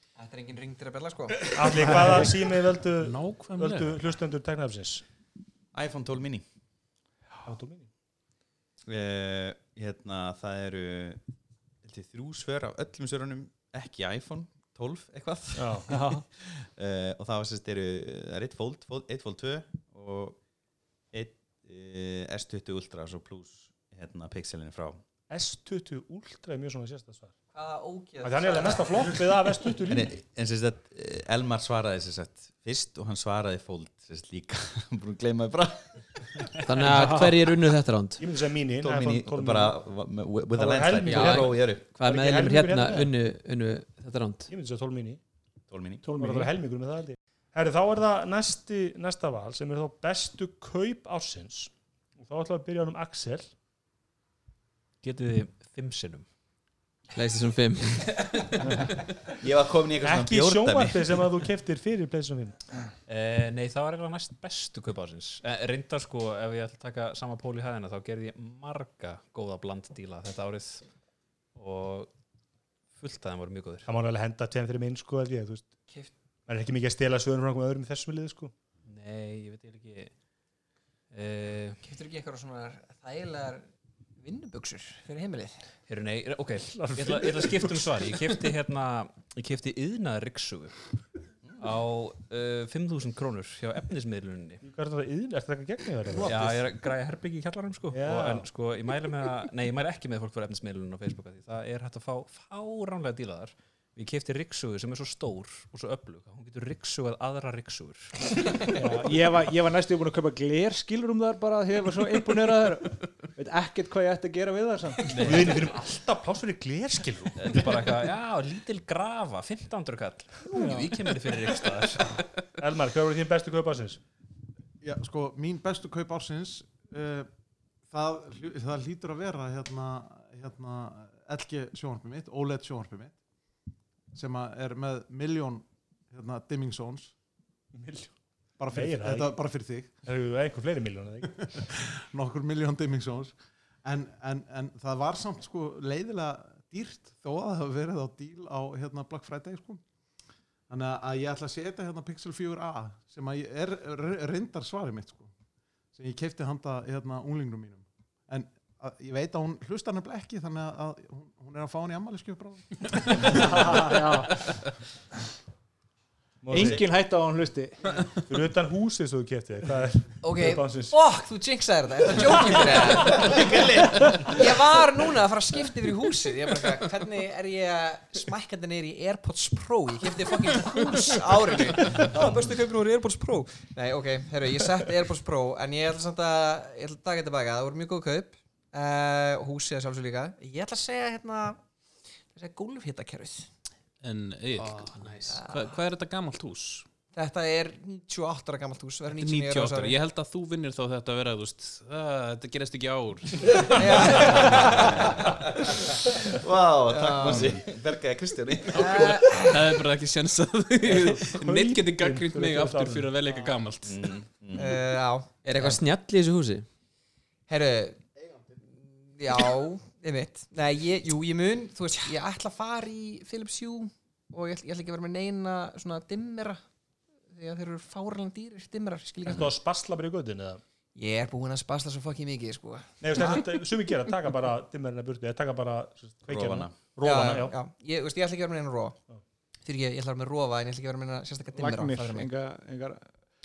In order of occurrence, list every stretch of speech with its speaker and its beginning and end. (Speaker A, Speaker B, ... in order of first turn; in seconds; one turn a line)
Speaker A: 0.2-1.5
Speaker B: 1.5-5.0
Speaker C: 3.0-4.0
Speaker D: 5.7-6.4
Speaker B: 7.4-7.9
Speaker D: 8.9-11.2
Speaker D: 11.8-15.8
Speaker B: 15.6-15.9
Speaker E: 15.9-16.2
Speaker D: 16.3-20.4
Speaker D: 21.1-25.0
Speaker B: 25.3-27.3
Speaker A: 27.5-29.2
Speaker B: 28.2-30.1
Speaker D: 29.9-36.2
Speaker F: 36.6-38.2
Speaker E: 36.8-37.4
Speaker B: 38.2-39.7
Speaker D: 38.8-41.9
Speaker B: 40.5-43.1
Speaker F: 41.0-44.5
Speaker B: 44.5-45.2
Speaker D: 45.7-46.0
Speaker E: 46.0-46.5
Speaker B: 46.1-53.5
Speaker G: 55.0-56.2
Speaker F: 57.1-58.4
Speaker D: 59.4-61.0
Speaker B: 60.0-62.6
Speaker G: 63.1-70.8
Speaker G: 71.5-72.1
Speaker G: 73.0-73.9
Speaker B: 73.8-75.7
Speaker B: 76.5-78.5
Speaker G: 78.8-80.1
Speaker G: 81.1-81.8
Speaker A: 81.8-83.7
Speaker A: 84.2-85.6
Speaker G: 85.9-90.9
Speaker B: 86.7-87.9
Speaker G: 91.6-94.6
Speaker B: 94.6-96.6
Speaker G: 96.2-108.4
Speaker B: 97.9-98.5
Speaker E: 108.7-115.6
Speaker G: 115.1-115.6
Speaker B: 115.1-117.5
Speaker G: 117.4-122.2
Speaker E: 120.5-120.9
Speaker B: 122.6-124.0
Speaker H: 124.8-127.3
Speaker H: 127.9-133.1
Speaker H: 134.1-137.1
Speaker B: 137.7-138.1
Speaker H: 138.6-139.9
Speaker B: 138.7-139.3
Speaker B: 140.0-141.6
Speaker H: 141.5-149.8
Speaker H: 150.7-155.3
Speaker H: 155.9-163.8
Speaker B: 163.3-164.4
Speaker B: 166.4-166.8
Speaker E: 166.5-168.1
Speaker D: 166.6-166.8
Speaker B: 168.3-170.9
Speaker A: 170.2-173.4
Speaker D: 173.1-174.3
Speaker A: 174.2-191.6
Speaker A: 192.3-193.5
Speaker C: 194.0-196.9
Speaker A: 195.3-195.6
Speaker A: 197.1-200.0
Speaker C: 199.2-205.0
Speaker A: 203.8-204.9
Speaker D: 205.0-209.1
Speaker A: 206.9-207.6
Speaker C: 207.2-207.6
Speaker C: 208.7-214.1
Speaker A: 208.7-209.5
Speaker B: 210.8-213.1
Speaker D: 213.8-214.8
Speaker A: 214.6-215.8
Speaker F: 215.4-216.7
Speaker A: 217.5-218.1
Speaker A: 218.7-226.6
Speaker A: 227.3-229.5
Speaker B: 229.3-230.6
Speaker A: 230.9-233.4
Speaker B: 233.0-237.5
Speaker D: 236.3-236.8
Speaker A: 237.0-239.0
Speaker A: 239.6-242.3
Speaker E: 241.6-243.1